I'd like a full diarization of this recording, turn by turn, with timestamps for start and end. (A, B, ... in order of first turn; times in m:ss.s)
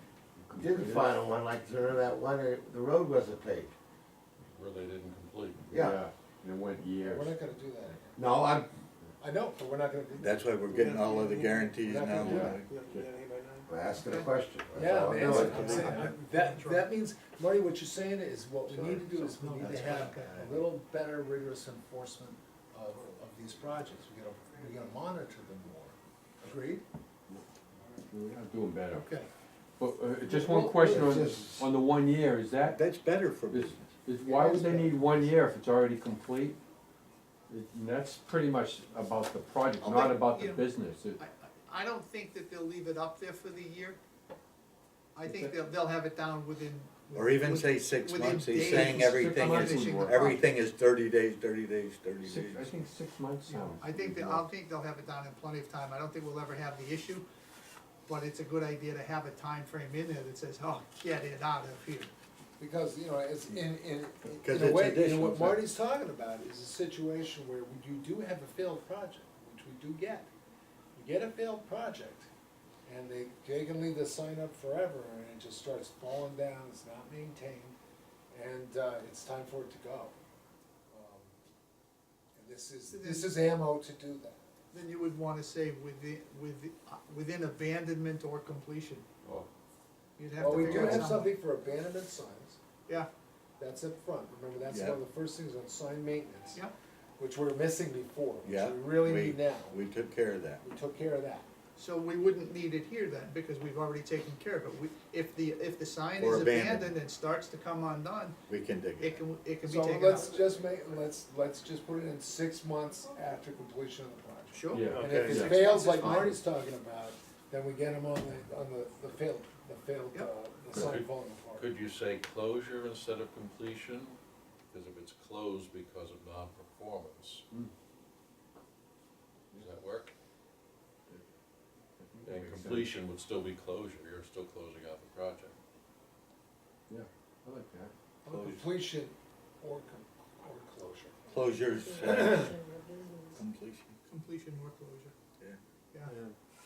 0:00.4-0:01.2 A
0:00.5-0:03.7 B
0:04.5-0:05.8 C
0:05.7-0:06.0 B
0:05.7-0:07.3 A
0:07.0-0:08.2 D
0:08.2-0:08.7 B
0:09.2-0:11.1 D
0:10.2-0:13.0 E
0:10.7-0:13.7 F
0:11.8-0:12.6 D
0:12.2-0:12.5 A
0:13.7-0:15.6 B
0:14.7-0:26.8 D
0:15.1-0:16.1 E
0:15.3-0:16.9 G
0:18.7-0:19.0 E
0:18.9-0:20.3 G
0:19.6-0:20.6 E
0:28.1-0:29.0 A
0:28.9-0:29.3 G
0:29.8-0:32.8 A
0:30.2-0:31.7 B
0:32.6-0:33.9 E
0:33.5-0:36.6 A
0:34.2-0:35.3 D
0:37.5-0:41.2 A
0:39.8-0:40.6 G
0:41.2-0:44.0 G
0:45.1-0:50.4 G
0:45.2-0:45.5 A
0:47.1-0:52.7 E
0:48.6-0:50.3 A
0:52.2-0:54.4 A
0:53.5-0:57.2 G
0:58.1-1:02.1 G
1:02.6-1:10.3 D
1:04.4-1:05.6 E
1:10.9-1:12.3 D
1:12.8-1:17.8 D
1:18.3-1:20.1 D
1:20.9-1:21.3 D
1:22.3-1:24.4 D
1:22.9-1:23.3 G
1:24.7-1:29.0 G
1:30.2-1:31.3 G
1:30.4-1:32.6 D
1:30.4-1:31.1 E
1:33.6-1:36.6 D
1:34.7-1:35.0 E
1:37.2-1:39.8 D
1:38.4-1:40.6 E
1:40.6-1:41.5 D
1:41.8-1:48.4 G
1:46.2-1:47.0 E
1:48.5-1:49.2 E
1:49.0-1:50.3 G
1:49.6-2:01.7 D
1:54.5-1:56.4 G
1:54.7-1:55.5 A
1:54.8-1:55.7 F
2:00.7-2:04.2 C
2:04.7-2:07.4 C
2:09.5-2:10.1 C
2:12.0-2:12.9 A
2:12.2-2:15.5 C
2:16.9-2:17.9 A
2:18.2-2:21.2 D
2:21.3-2:22.6 E
2:22.0-2:22.4 D
2:22.0-2:23.2 F
2:23.3-2:24.0 E
2:24.1-2:25.1 G
2:26.1-2:26.3 F